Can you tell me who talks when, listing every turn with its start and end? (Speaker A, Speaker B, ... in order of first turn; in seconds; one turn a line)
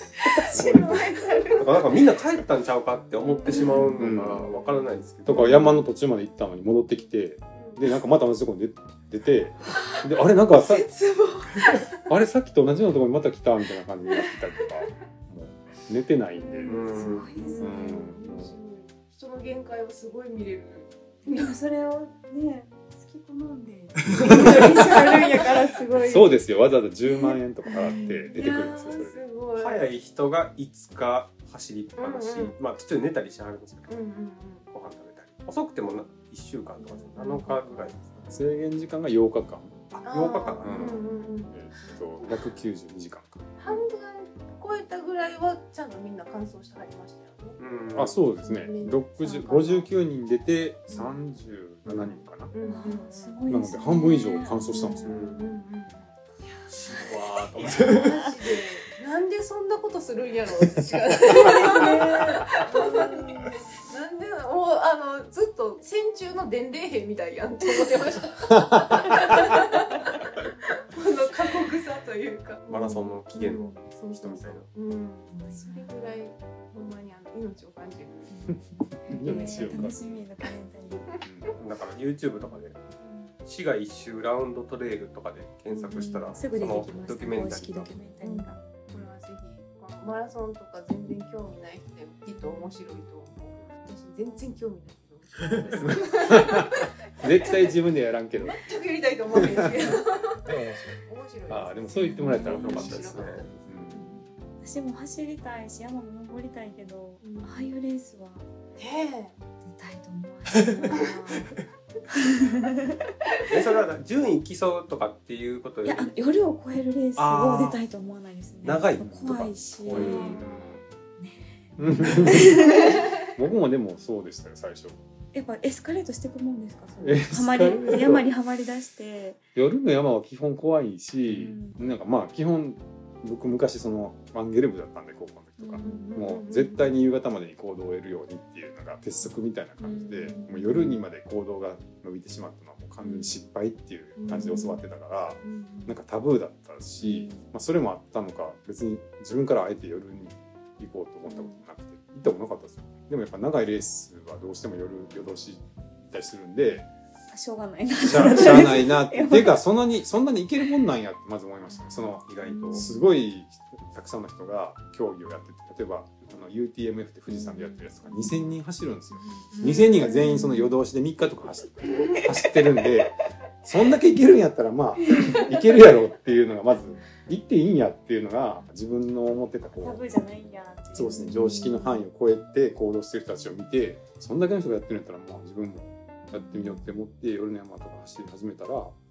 Speaker A: 0.2-1.7
Speaker B: 0.4-1.9
Speaker C: 0.5-0.9
Speaker D: 1.6-5.4
Speaker B: 3.3-4.2
Speaker A: 3.5-3.8
Speaker C: 4.0-4.5
Speaker C: 5.2-10.9
Speaker B: 5.3-5.7
Speaker B: 7.5-7.8
Speaker A: 10.6-11.8
Speaker C: 12.1-16.9
Speaker B: 16.6-21.5
Speaker A: 16.6-18.0
Speaker D: 16.6-17.3
Speaker C: 17.6-18.5
Speaker A: 21.3-26.3
Speaker C: 24.3-24.6
Speaker C: 26.0-29.2
Speaker A: 27.1-28.4
Speaker B: 27.8-29.9
Speaker D: 29.6-33.9
Speaker B: 32.0-32.5
Speaker B: 33.9-34.6
Speaker D: 34.7-38.0
Speaker B: 36.8-38.2
Speaker C: 38.3-43.5
Speaker B: 40.0-42.5
Speaker D: 40.1-41.0
Speaker B: 43.6-47.6
Speaker D: 47.6-48.1
Speaker C: 47.9-52.5
Speaker B: 48.4-49.9
Speaker B: 50.9-51.2
Speaker B: 51.8-53.4
Speaker A: 52.6-55.3
Speaker C: 53.5-55.2
Speaker B: 54.9-56.1
Speaker D: 55.0-55.5
Speaker C: 56.9-58.1
Speaker B: 56.9-70.0
Speaker D: 57.5-58.0
Speaker A: 61.2-63.5
Speaker B: 70.9-78.3
Speaker D: 72.7-74.7
Speaker A: 75.3-76.2
Speaker A: 78.3-81.1
Speaker C: 78.5-80.2
Speaker B: 79.3-79.8
Speaker C: 81.2-81.6
Speaker D: 81.6-82.8
Speaker D: 83.4-87.9
Speaker B: 85.8-86.0
Speaker A: 85.9-88.6
Speaker B: 88.2-96.8
Speaker C: 88.9-89.2
Speaker A: 92.3-93.0
Speaker A: 95.7-95.9
Speaker C: 95.8-98.7
Speaker B: 98.4-104.2
Speaker C: 99.3-104.0
Speaker A: 101.9-102.9
Speaker D: 102.4-103.5
Speaker A: 104.6-108.5
Speaker B: 107.2-107.7
Speaker B: 108.8-109.4
Speaker A: 109.6-111.5
Speaker D: 110.6-111.0
Speaker A: 112.1-112.7
Speaker D: 113.5-116.1
Speaker A: 115.8-120.5
Speaker D: 117.2-117.8
Speaker D: 118.6-120.4
Speaker C: 119.9-120.8
Speaker B: 120.0-120.7
Speaker A: 121.2-123.1
Speaker C: 121.8-125.0
Speaker A: 125.3-129.4
Speaker C: 127.0-128.2
Speaker C: 129.6-156.9
Speaker A: 131.3-131.8
Speaker A: 135.6-136.1
Speaker B: 135.8-136.9
Speaker A: 139.8-141.0
Speaker B: 140.2-140.6
Speaker B: 144.2-144.8
Speaker B: 145.4-145.9
Speaker A: 147.0-147.4
Speaker A: 151.3-151.6
Speaker A: 157.3-159.6
Speaker C: 158.0-180.0
Speaker D: 162.2-162.9
Speaker B: 162.4-162.8
Speaker A: 167.3-168.5
Speaker B: 169.5-170.3
Speaker A: 170.0-170.7
Speaker A: 179.7-182.0
Speaker C: 180.9-188.9
Speaker A: 186.3-186.8